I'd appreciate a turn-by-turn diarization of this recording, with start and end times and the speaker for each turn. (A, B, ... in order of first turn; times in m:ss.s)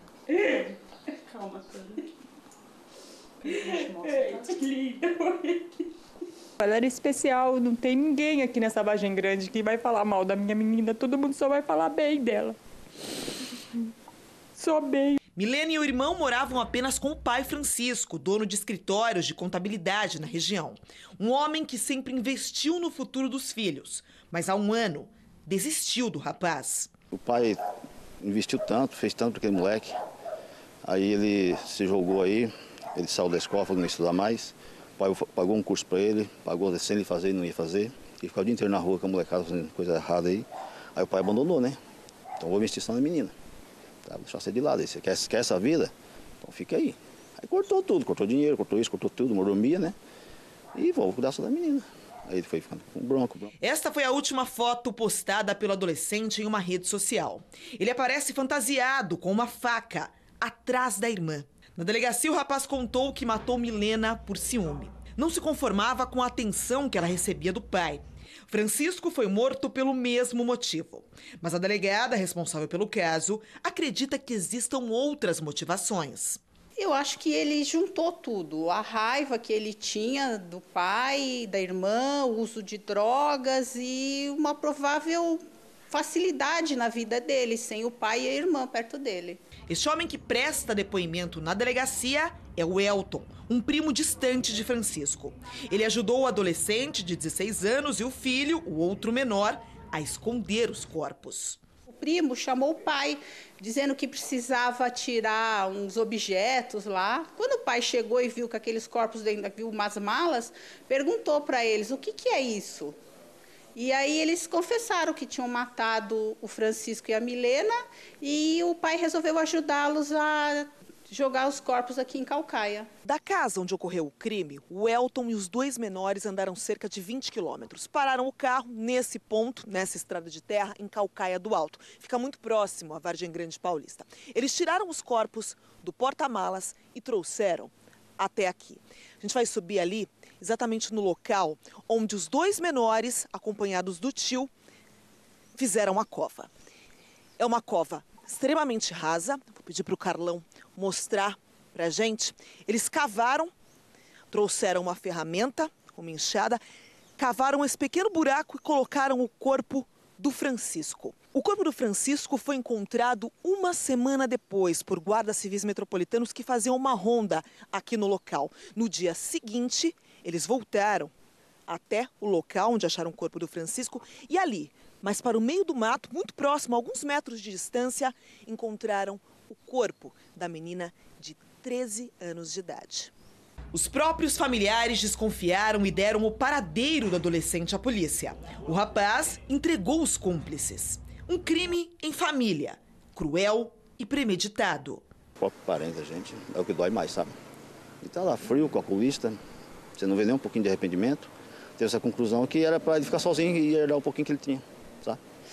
0:00.3-0:02.0 A
0:03.4-0:05.8 A
0:06.6-0:12.6 A
0:14.6-0:15.2 A
0:15.4-0:26.9 B
0:27.1-0:27.6 C
0:28.2-0:29.9 C
0:30.8-0:41.8 C
0:42.4-0:43.3 C
0:44.0-0:49.9 C
0:50.7-0:53.5 C
0:53.6-1:16.4 B
1:16.8-1:29.4 D
1:29.7-1:41.6 B
1:41.9-1:52.9 D
1:53.7-2:02.9 D
2:03.0-2:24.5 B
2:25.5-2:26.5 B
2:27.4-2:33.5 B
2:34.3-2:36.6 B
2:37.2-2:51.1 B
2:51.7-3:03.1 B
3:03.7-3:15.1 B
3:15.4-3:17.3 C
3:18.0-3:19.4 C
3:20.0-3:25.2 C